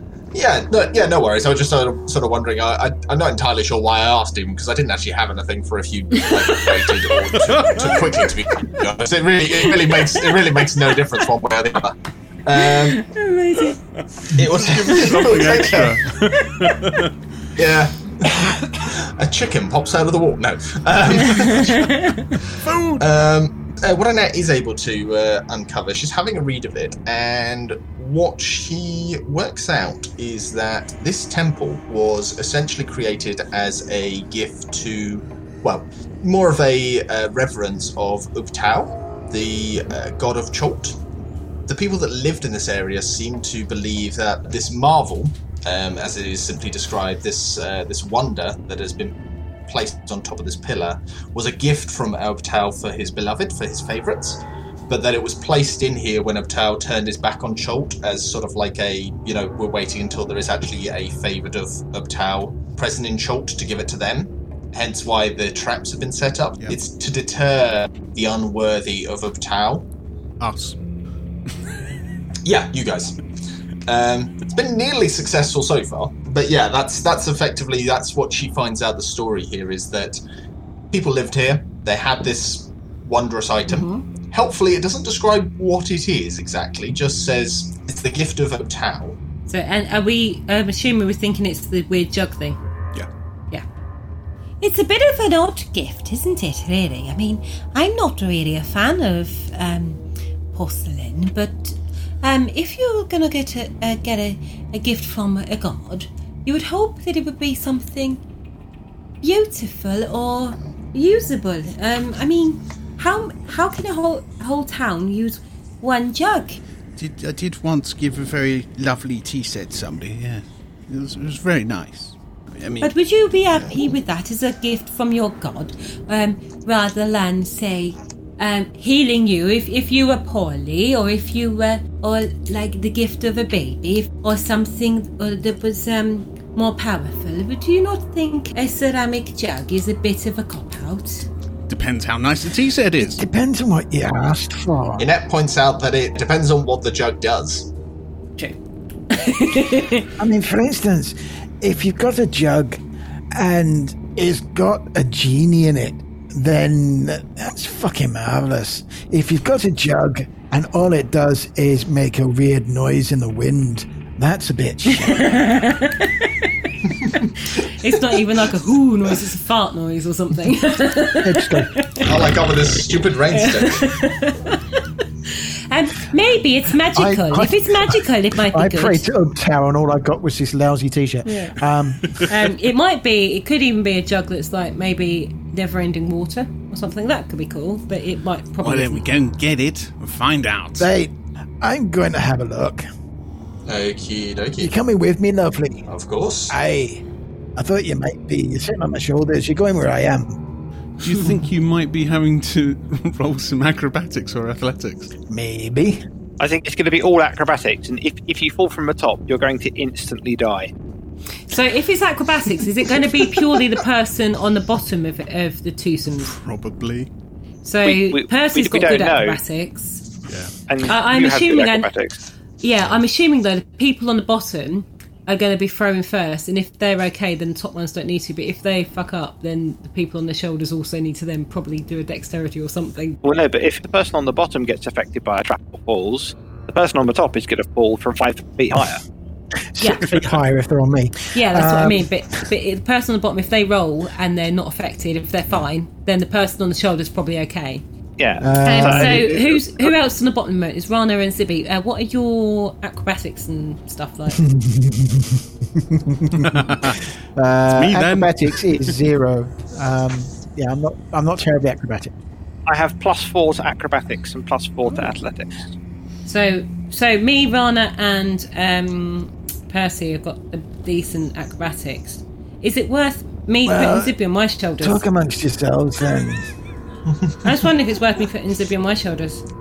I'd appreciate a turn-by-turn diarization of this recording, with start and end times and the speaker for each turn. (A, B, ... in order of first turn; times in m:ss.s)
0:00.3-0:13.0 A
0:06.2-0:06.6 B
0:12.6-0:13.8 B
0:14.3-0:16.0 A
0:14.5-0:17.1 C
0:16.4-0:16.8 B
0:17.6-0:22.0 A
0:21.4-0:22.3 B
0:22.6-0:23.0 D
0:23.0-0:41.0 A
0:41.7-1:09.9 A
1:10.4-1:10.8 D
1:12.4-1:13.2 A
1:13.9-1:20.2 A
1:20.9-1:29.2 A
1:23.7-1:24.0 B
1:29.5-1:32.6 B
1:34.6-1:40.0 B
1:40.5-1:48.2 B
1:49.2-1:56.6 B
1:57.0-2:02.9 D
2:02.8-2:21.3 B
2:21.7-2:23.2 D
2:23.0-2:25.1 E
2:25.0-2:27.7 A
2:29.1-2:30.1 B
2:30.2-2:32.8 E
2:33.3-2:45.4 E
2:44.9-2:46.5 B
2:47.7-2:52.1 B
2:51.2-2:51.7 E
2:52.0-2:54.0 A
2:53.3-2:59.1 B
2:56.9-3:02.2 E
3:01.3-3:01.6 B
3:02.2-3:09.1 B
3:08.6-3:10.9 D
3:10.8-3:12.8 E
3:13.7-3:14.7 A
3:14.6-3:15.9 E
3:15.9-3:16.6 A
3:16.5-3:17.0 E
3:17.6-3:20.4 E
3:21.0-3:25.1 C
3:25.3-3:26.0 E
3:26.4-3:30.7 F
3:31.5-3:36.3 B
3:36.3-3:37.1 C
3:37.6-3:40.0 B
3:37.8-3:39.4 F
3:40.7-3:42.2 F
3:40.8-3:41.9 B
3:42.6-3:53.2 B
3:53.2-3:59.0 F
3:59.7-4:02.1 E
3:59.8-4:00.1 B
4:01.3-4:07.8 B
4:08.2-4:09.6 F
4:08.4-4:09.3 E
4:08.6-4:14.5 B
4:14.4-4:22.1 E
4:17.9-4:18.2 C
4:22.7-4:25.6 F
4:26.3-4:35.0 B
4:33.6-4:34.2 E
4:34.8-4:36.5 E
4:37.4-4:39.4 B